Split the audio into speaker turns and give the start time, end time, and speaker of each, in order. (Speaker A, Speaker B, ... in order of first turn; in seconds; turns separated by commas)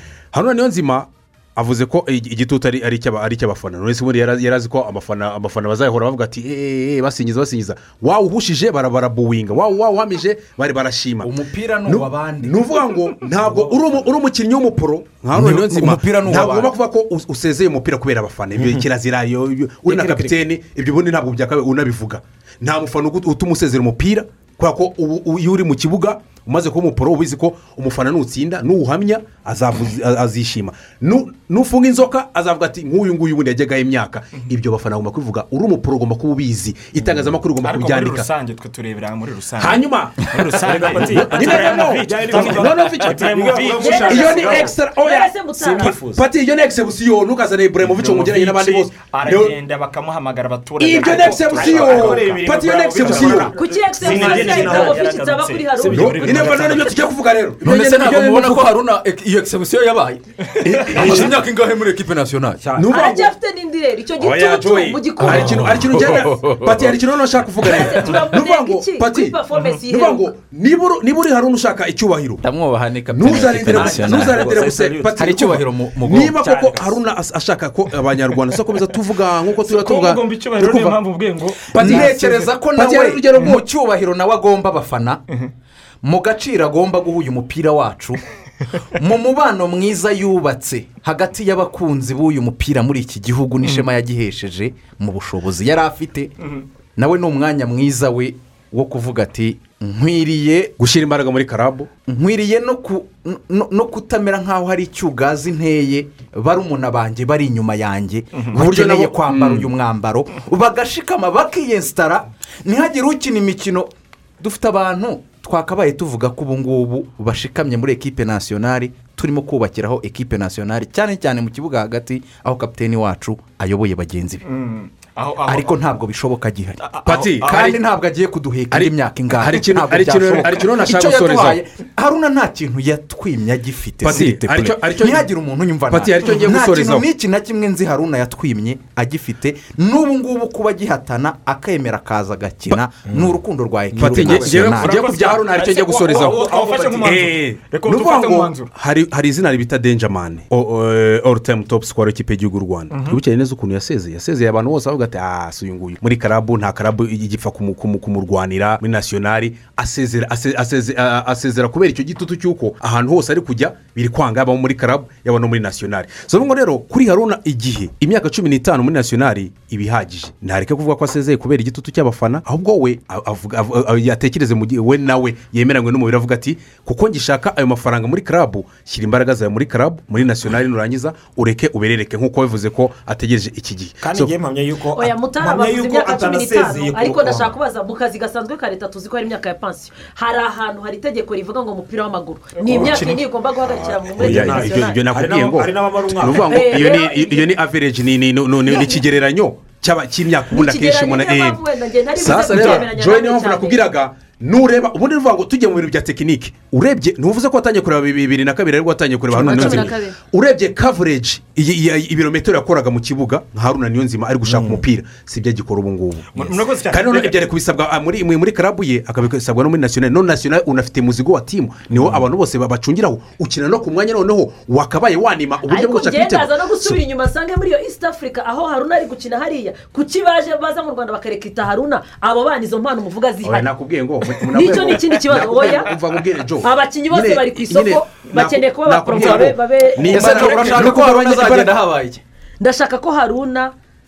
Speaker A: 0.3-11.3, Speaker B: 11.2-12.6, Speaker A: 11.8-38.3, Speaker B: 15.3-16.7, Speaker C: 18.6-18.8, Speaker C: 19.9-20.4, Speaker D: 37.6-44.5, Speaker A: 39.6-40.3, Speaker C: 40.6-44.8, Speaker A: 40.9-49.5, Speaker E: 43.8-45.9, Speaker C: 45.5-46.3, Speaker D: 47.8-52.4, Speaker A: 50.8-53.5, Speaker C: 51.0-56.7, Speaker E: 53.5-56.2, Speaker D: 53.9-56.9, Speaker A: 56.0-58.7, Speaker B: 57.6-62.6, Speaker D: 60.6-60.8, Speaker C: 60.9-61.4, Speaker A: 61.0-61.2, Speaker C: 62.6-63.0, Speaker A: 62.7-63.3, Speaker E: 62.9-65.8, Speaker A: 64.2-72.4, Speaker E: 67.6-70.3, Speaker B: 72.4-76.9, Speaker A: 73.1-81.0, Speaker C: 73.3-75.4, Speaker D: 79.6-82.5, Speaker A: 81.7-83.6, Speaker B: 81.7-85.2, Speaker B: 86.0-88.2, Speaker B: 89.0-96.3, Speaker B: 97.0-100.7, Speaker A: 100.8-101.9, Speaker B: 102.1-124.4, Speaker A: 108.5-109.7, Speaker D: 124.4-125.7, Speaker B: 125.5-126.9, Speaker D: 126.8-127.6, Speaker A: 127.0-127.8, Speaker B: 127.4-145.2, Speaker A: 128.7-131.6, Speaker A: 134.0-135.3, Speaker A: 135.9-137.1, Speaker C: 143.0-143.4, Speaker C: 143.9-144.7, Speaker A: 144.0-184.3, Speaker D: 144.7-148.7, Speaker B: 146.2-147.1, Speaker D: 152.9-153.2, Speaker C: 184.0-187.5, Speaker E: 184.9-195.0, Speaker D: 192.7-193.2, Speaker A: 192.7-193.1, Speaker C: 192.7-193.0, Speaker A: 193.6-201.6, Speaker C: 194.1-196.7, Speaker E: 196.5-197.5, Speaker E: 198.7-199.0, Speaker E: 200.5-203.8, Speaker A: 202.2-227.0, Speaker E: 209.3-210.2, Speaker D: 209.4-209.8, Speaker D: 214.5-214.8, Speaker D: 216.3-217.3, Speaker D: 221.9-222.2, Speaker E: 225.7-233.7, Speaker A: 233.4-241.7, Speaker E: 234.3-235.9, Speaker E: 236.6-240.6, Speaker B: 239.2-239.5, Speaker B: 240.0-242.2, Speaker D: 240.1-240.9, Speaker E: 242.6-243.7